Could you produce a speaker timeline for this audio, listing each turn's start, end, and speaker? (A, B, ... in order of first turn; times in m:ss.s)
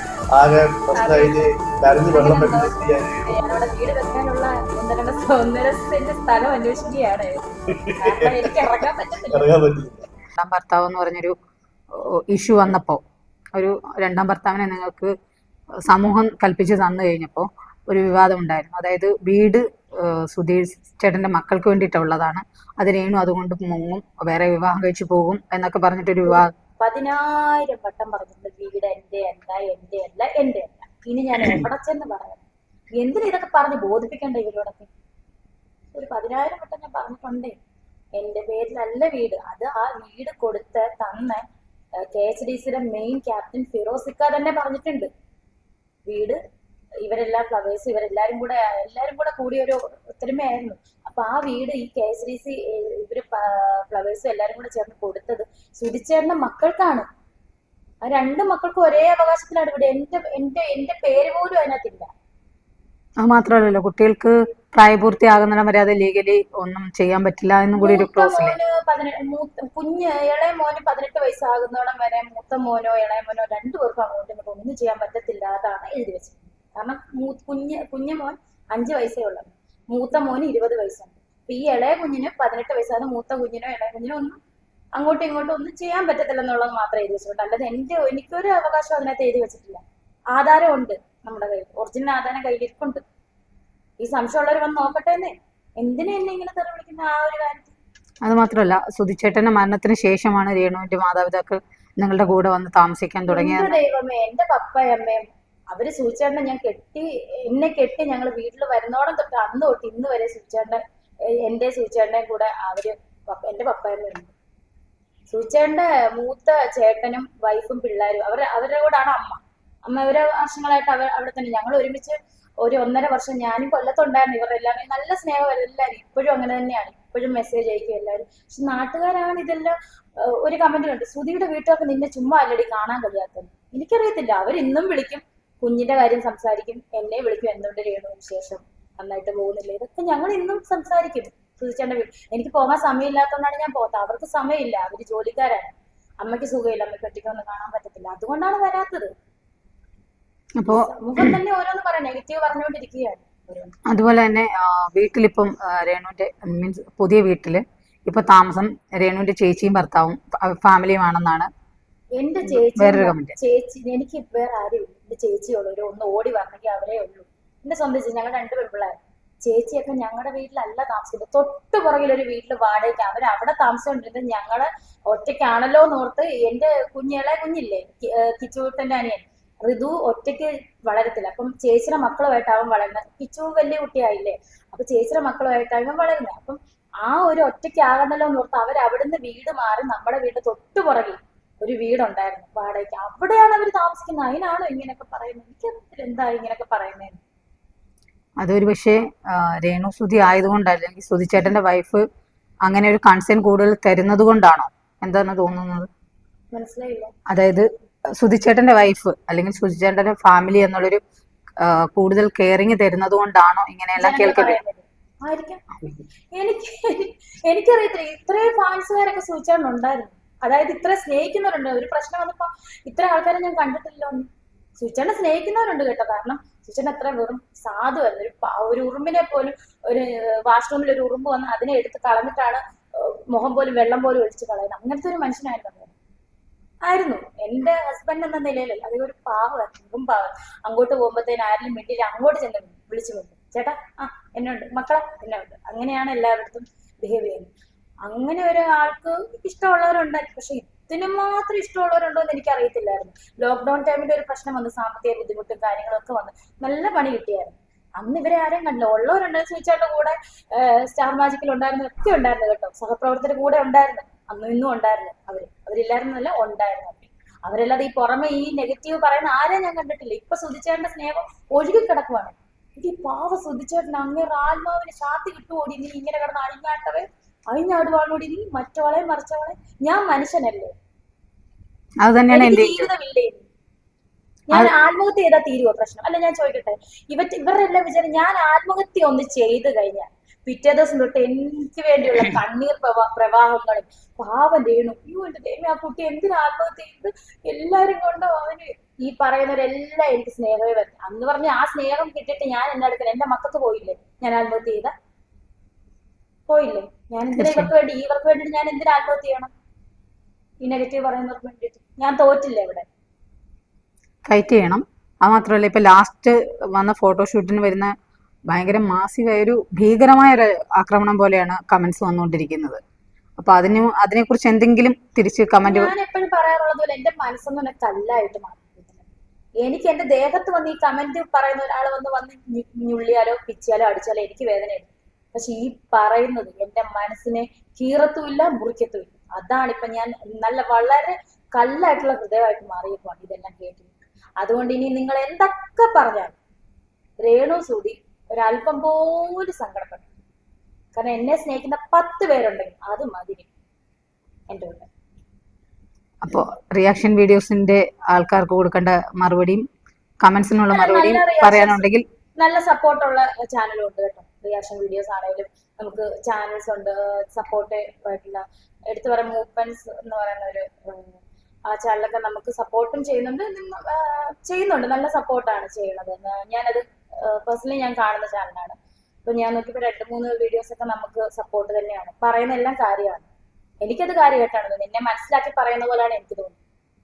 0:00.4-0:03.4 A
0:00.9-0:09.5 B
0:07.9-0:10.1 A
0:10.4-0:11.3 C
0:12.0-0:13.0 C
0:13.6-0:15.1 C
0:15.9-0:26.5 C
0:26.3-0:32.4 B
0:33.0-0:34.9 B
0:35.9-0:37.6 B
0:38.2-0:41.4 B
0:42.1-0:45.1 B
0:46.1-0:46.4 B
0:47.0-0:57.1 B
0:58.0-1:02.1 B
1:03.2-1:08.6 C
1:07.8-1:24.4 B
1:25.0-1:29.8 B
1:30.3-1:33.0 B
1:34.0-1:37.8 B
1:38.2-1:43.8 C
1:43.3-1:50.8 B
1:51.5-1:54.3 B
1:55.3-2:09.8 B
2:10.3-2:29.1 B
2:30.6-2:31.4 C
2:30.7-2:33.7 B
2:33.9-2:41.5 C
2:42.2-3:17.2 B
2:42.4-2:43.3 C
3:18.4-3:22.0 C
3:22.6-3:25.9 C
3:26.5-3:27.1 B
3:27.3-3:27.7 C
3:28.2-3:31.0 C
3:31.6-3:34.6 C
3:34.0-3:35.6 B
3:36.3-3:44.3 B
3:44.8-3:55.9 B
3:56.8-4:07.5 B
4:08.1-4:40.7 B
4:42.0-4:42.9 C
4:42.3-4:43.4 B
4:44.5-5:04.9 B
5:06.5-5:09.5 B
5:07.4-5:07.7 C
5:10.6-5:12.9 B
5:14.3-5:17.9 C
5:18.5-5:22.8 C
5:23.4-5:25.9 C
5:25.6-5:29.0 B
5:29.6-5:46.4 B
5:47.2-5:50.1 B
5:50.9-5:53.5 B
5:54.5-5:54.9 B
5:56.2-5:59.7 C
6:00.2-6:02.1 C
6:00.7-6:01.8 B
6:02.4-6:23.3 B
6:23.8-6:26.6 B